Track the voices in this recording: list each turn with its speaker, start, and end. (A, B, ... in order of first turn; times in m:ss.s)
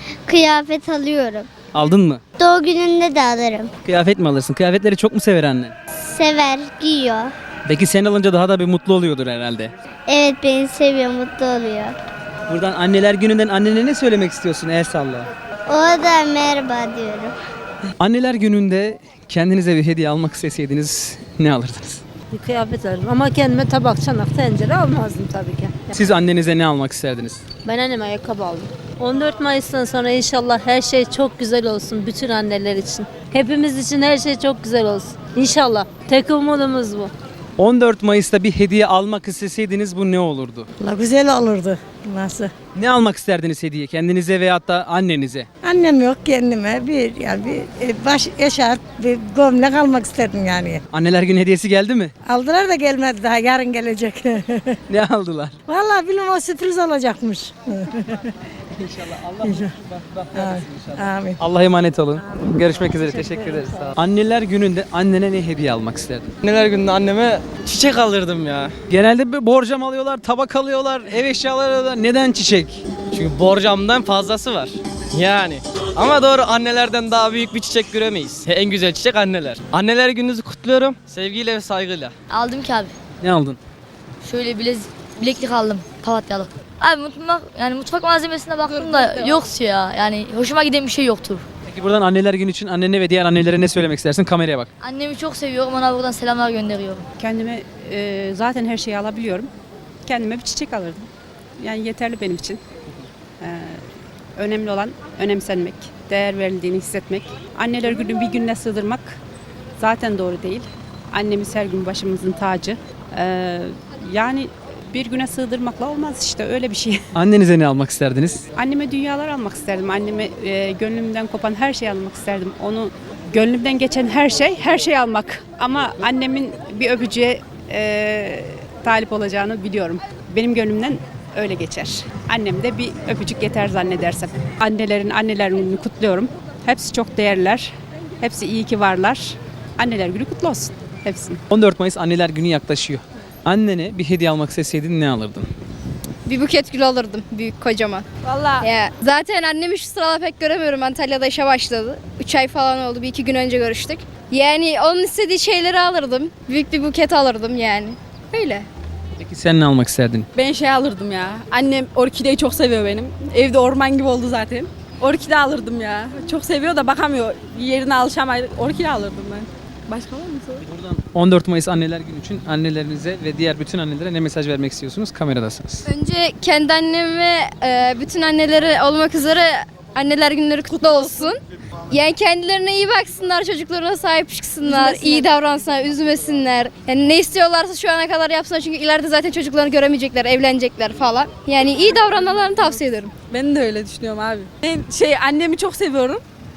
0:00.2-0:01.5 A
0:01.7-0:02.2 B
0:02.4-0:03.7 A
0:03.8-0:05.7 B
0:06.0-0:07.3 A
0:07.6-0:09.7 B
0:10.1-0:12.0 A
0:12.5-0:15.3 B
0:15.7-0:17.3 A
0:18.0-0:22.0 B
0:22.3-0:25.9 C
0:25.9-0:27.4 B
0:27.6-0:37.1 C
0:37.6-0:40.7 B
0:40.8-0:42.5 D
0:42.8-0:45.5 B
0:45.6-0:50.8 D
0:50.9-0:52.1 B
0:52.2-0:54.8 D
0:54.9-0:55.6 B
0:55.7-0:58.3 D
0:58.8-1:06.3 B
0:59.4-0:59.7 D
1:00.3-1:01.4 D
1:02.4-1:03.9 D
1:06.4-1:08.7 E
1:08.9-1:12.8 B
1:13.1-1:22.1 E
1:22.3-1:22.9 F
1:23.2-1:23.6 B
1:24.2-1:31.4 F
1:28.8-1:29.3 G
1:31.7-1:34.7 B
1:34.8-1:37.0 F
1:37.2-1:39.5 H
1:40.0-1:42.6 H
1:43.4-1:43.8 H
1:44.4-1:49.2 H
1:49.8-1:57.0 H
1:57.1-1:58.4 B
1:58.6-2:21.4 H
2:21.5-2:25.5 B
2:26.2-2:28.1 I
2:28.2-2:28.7 G
2:28.6-2:38.7 I
2:39.2-2:40.3 B
2:40.3-2:50.6 G
2:50.6-2:55.9 B
2:55.8-3:01.4 I
3:00.7-3:01.3 G
3:01.9-3:13.1 I
3:04.6-3:05.3 G
3:13.3-3:16.2 G